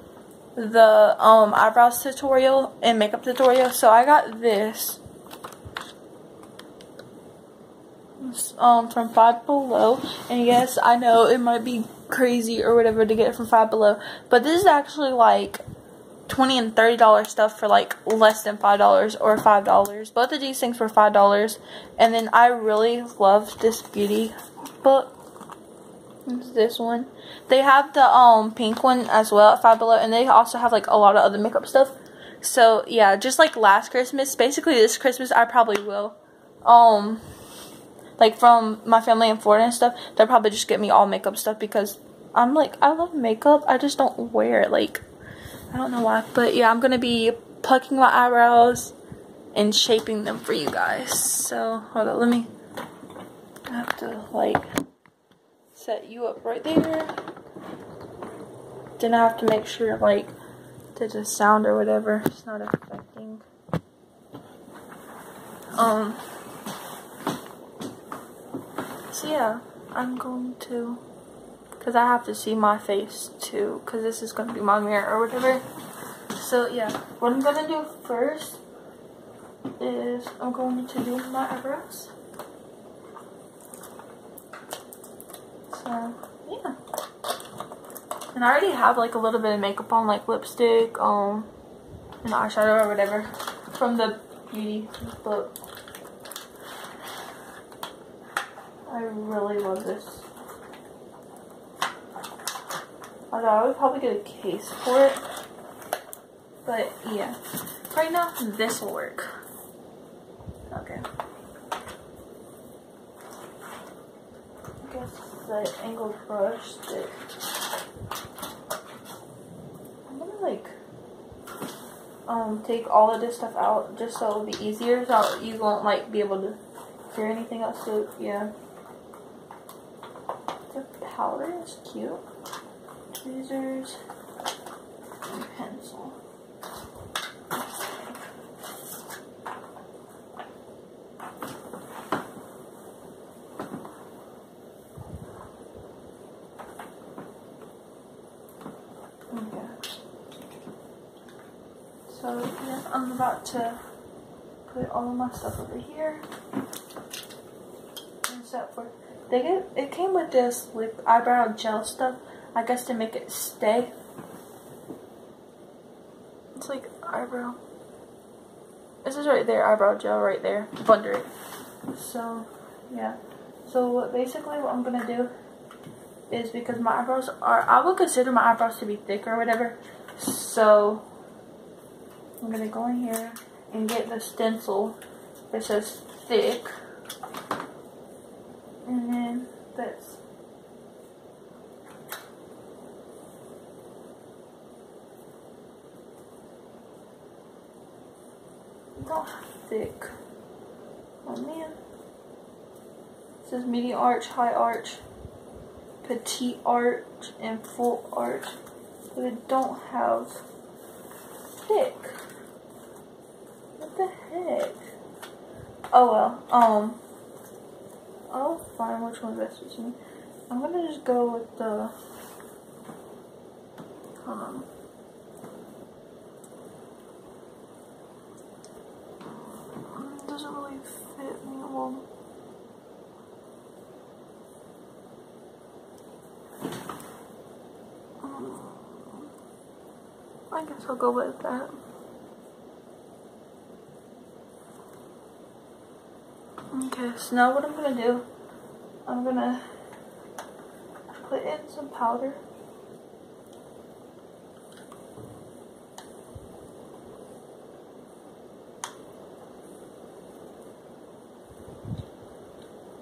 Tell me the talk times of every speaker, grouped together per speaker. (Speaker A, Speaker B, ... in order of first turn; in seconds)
Speaker A: 0.5-5.0, 8.2-15.6, 16.3-25.1, 26.2-37.2, 38.2-45.0, 45.7-48.9, 49.5-52.5, 53.7-54.7, 55.7-57.2, 59.0-60.3, 60.9-63.5, 65.7-66.2, 69.1-71.0, 71.8-75.6, 76.3-78.6, 79.8-82.1, 85.7-86.8, 88.3-91.5, 92.2-95.5, 98.9-100.3, 103.3-105.2, 106.6-109.3, 110.7-111.0, 114.8-117.2, 120.1-120.8, 122.3-128.5, 130.7-132.2, 133.1-134.0, 135.2-136.2, 149.3-149.8, 152.1-153.8, 154.7-156.2, 158.3-163.9, 166.6-167.6, 169.0-171.3, 171.9-175.3, 176.3-181.0, 182.4-185.0, 185.5-186.7, 188.8-190.2, 198.9-200.1, 201.2-201.8, 203.4-205.0, 206.0-208.6, 209.1-210.4, 211.5-212.2, 213.8-214.9, 215.9-217.0, 218.3-220.0, 220.5-221.9, 224.2-224.7, 229.7-232.1, 238.2-239.2, 240.5-241.7, 246.7-248.2, 249.1-249.7, 251.1-252.4